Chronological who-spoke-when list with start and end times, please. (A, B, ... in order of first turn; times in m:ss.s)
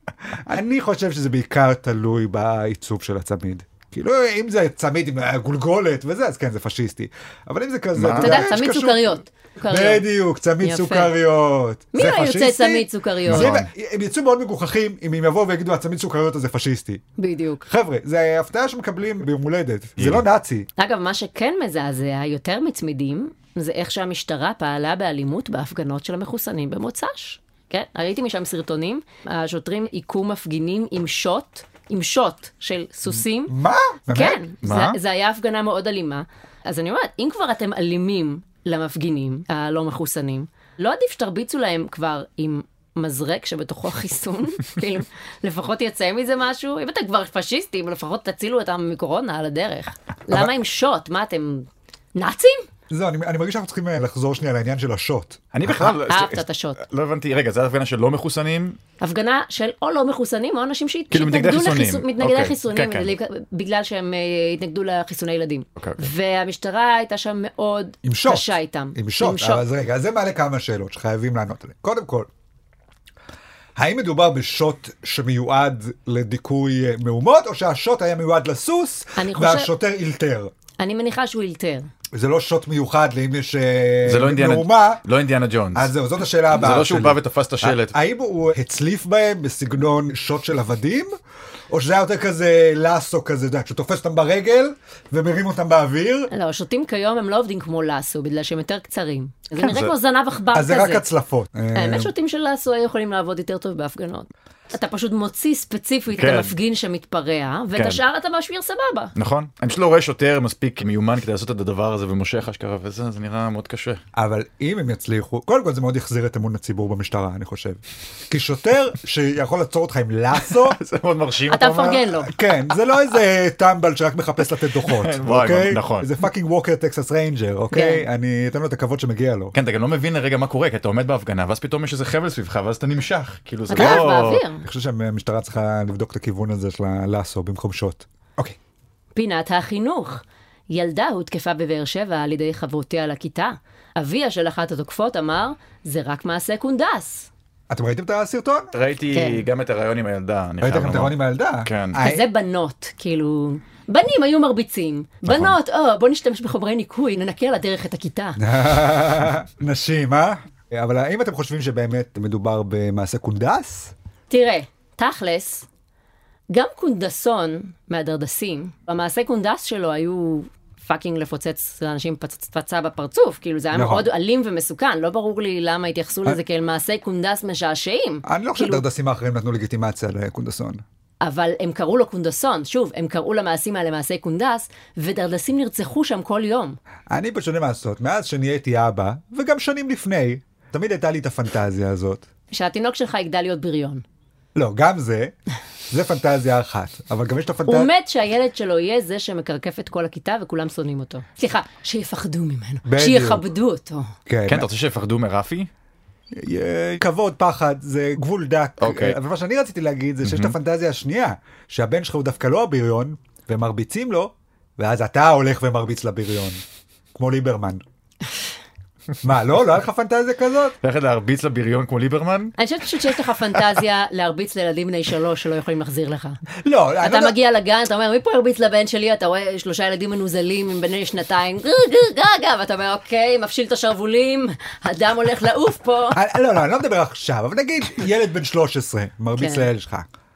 0:00.3-0:09.2 A
0:08.0-0:08.4 B
0:08.2-0:10.0 C
0:09.7-0:17.0 A
0:10.6-0:11.1 C
0:11.9-0:13.6 C
0:13.3-0:13.7 B
0:17.2-0:17.6 C
0:17.6-0:20.7 A
0:20.8-0:33.5 C
0:33.5-0:34.4 A
0:34.1-0:52.7 C
0:34.6-0:35.0 B
0:52.9-0:55.9 A
0:55.5-0:58.8 B
0:56.1-0:56.8 C
0:59.0-1:09.6 C
1:01.1-1:03.1 B
1:08.0-1:12.3 A
1:13.8-1:20.5 A
1:19.2-1:19.7 C
1:20.8-1:21.9 C
1:22.1-1:25.0 A
1:24.0-1:25.9 B
1:25.7-1:31.1 A
1:26.5-1:27.9 B
1:31.7-1:36.3 A
1:36.3-1:41.0 C
1:39.6-1:39.9 B
1:40.5-1:42.1 A
1:41.7-1:49.1 C
1:46.1-1:46.5 B
1:47.7-1:48.0 B
1:49.2-1:54.0 B
1:54.1-2:00.8 A
2:00.5-2:02.1 B
2:01.5-2:02.3 C
2:02.2-2:09.5 A
2:04.8-2:06.1 B
2:07.7-2:08.0 C
2:09.5-2:14.4 B
2:13.7-2:14.6 C
2:13.7-2:14.1 A
2:14.6-2:18.6 A
2:19.1-2:27.3 C
2:27.7-2:28.7 A
2:28.7-2:32.0 B
2:29.1-2:29.4 C
2:30.6-2:32.2 A
2:32.0-2:38.4 C
2:35.2-2:35.5 B
2:38.4-2:43.9 A
2:44.3-2:45.7 C
2:46.5-2:58.8 C
2:53.7-2:54.1 A
2:58.2-3:00.8 A
3:01.2-3:06.8 C
3:07.1-3:12.3 A
3:12.5-3:14.0 C
3:14.5-3:15.3 A
3:15.9-3:17.9 A
3:17.6-3:24.1 C
3:22.8-3:23.4 A
3:24.3-3:24.7 A
3:24.5-3:25.7 B
3:26.3-3:36.6 A
3:28.8-3:29.2 B
3:30.2-3:30.5 B
3:37.1-3:37.8 A
3:39.2-3:40.8 A
3:40.8-3:42.6 B
3:42.6-3:46.4 C
3:46.6-3:47.4 A
3:47.0-3:56.2 C
3:56.1-4:00.1 A
3:59.4-3:59.7 C